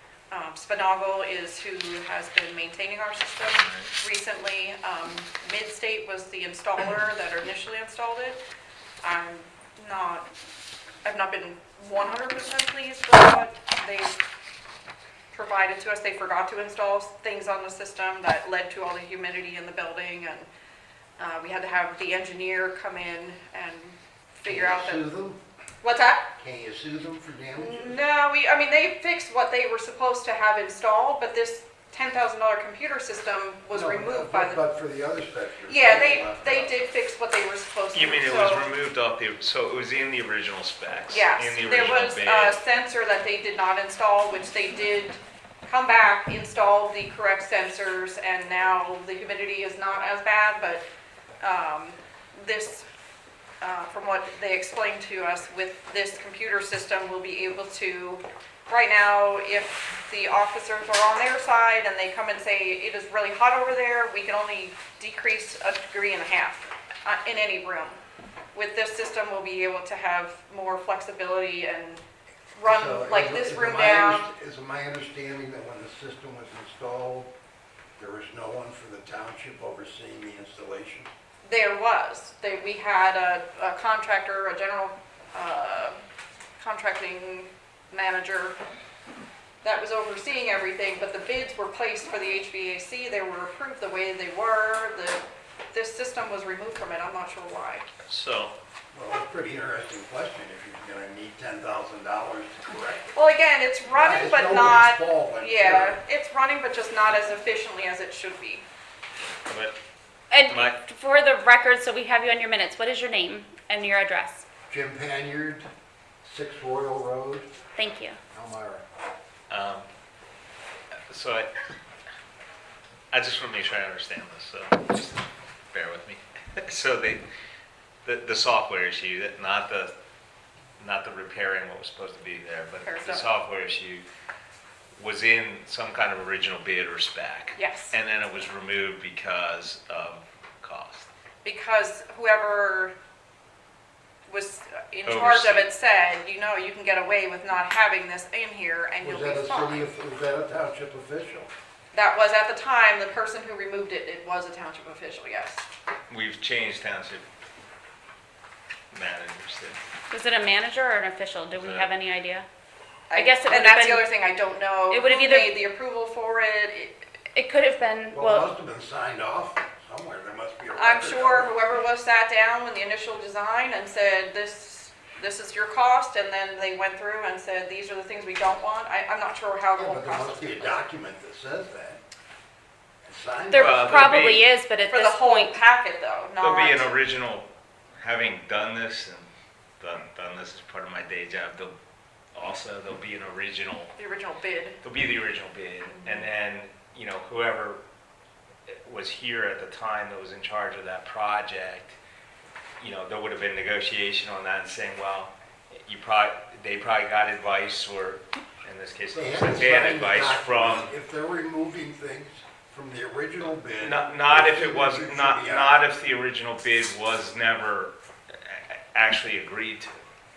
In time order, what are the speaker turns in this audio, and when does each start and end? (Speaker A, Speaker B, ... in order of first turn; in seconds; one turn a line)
Speaker A: 0.3-8.4
Speaker A: 9.0-10.3
Speaker A: 11.1-14.2
Speaker A: 15.3-20.5
Speaker A: 21.2-25.0
Speaker B: 24.5-25.4
Speaker A: 25.8-26.3
Speaker B: 26.4-28.0
Speaker A: 27.6-34.6
Speaker B: 33.7-36.7
Speaker A: 35.7-38.7
Speaker C: 37.9-42.6
Speaker A: 41.1-50.9
Speaker A: 51.4-52.9
Speaker A: 53.6-68.0
Speaker A: 68.5-72.0
Speaker A: 72.6-74.3
Speaker B: 72.7-77.3
Speaker B: 78.0-81.1
Speaker A: 81.4-86.0
Speaker A: 86.6-88.6
Speaker A: 89.6-95.2
Speaker A: 95.7-97.9
Speaker C: 98.1-98.5
Speaker B: 98.9-103.2
Speaker A: 103.2-108.7
Speaker B: 103.9-106.0
Speaker C: 109.5-109.8
Speaker D: 110.3-114.5
Speaker C: 110.5-110.8
Speaker B: 114.7-115.7
Speaker B: 116.2-117.5
Speaker D: 117.8-118.2
Speaker B: 118.3-118.8
Speaker C: 119.5-119.9
Speaker C: 121.1-121.5
Speaker C: 123.1-127.2
Speaker C: 128.1-129.9
Speaker C: 130.8-134.1
Speaker A: 132.8-133.3
Speaker C: 135.0-141.1
Speaker A: 137.6-137.9
Speaker A: 141.4-142.9
Speaker A: 144.3-149.9
Speaker C: 145.1-145.7
Speaker B: 149.0-151.5
Speaker A: 151.9-155.6
Speaker C: 156.1-157.2
Speaker C: 158.9-159.8
Speaker D: 160.1-162.5
Speaker C: 161.5-161.9
Speaker A: 163.1-167.1
Speaker D: 163.1-164.1
Speaker D: 164.9-165.5
Speaker D: 167.3-168.5
Speaker B: 168.1-171.5
Speaker A: 170.8-180.8
Speaker B: 179.8-182.0
Speaker B: 183.1-184.2
Speaker D: 183.5-185.6
Speaker C: 183.5-184.4
Speaker A: 184.9-186.9
Speaker C: 186.4-187.5
Speaker C: 188.0-189.3
Speaker C: 189.8-191.8
Speaker C: 192.3-193.9
Speaker A: 194.0-194.8
Speaker C: 194.8-197.8
Speaker C: 198.7-202.0
Speaker C: 202.8-210.9
Speaker B: 209.1-215.8
Speaker C: 213.8-220.0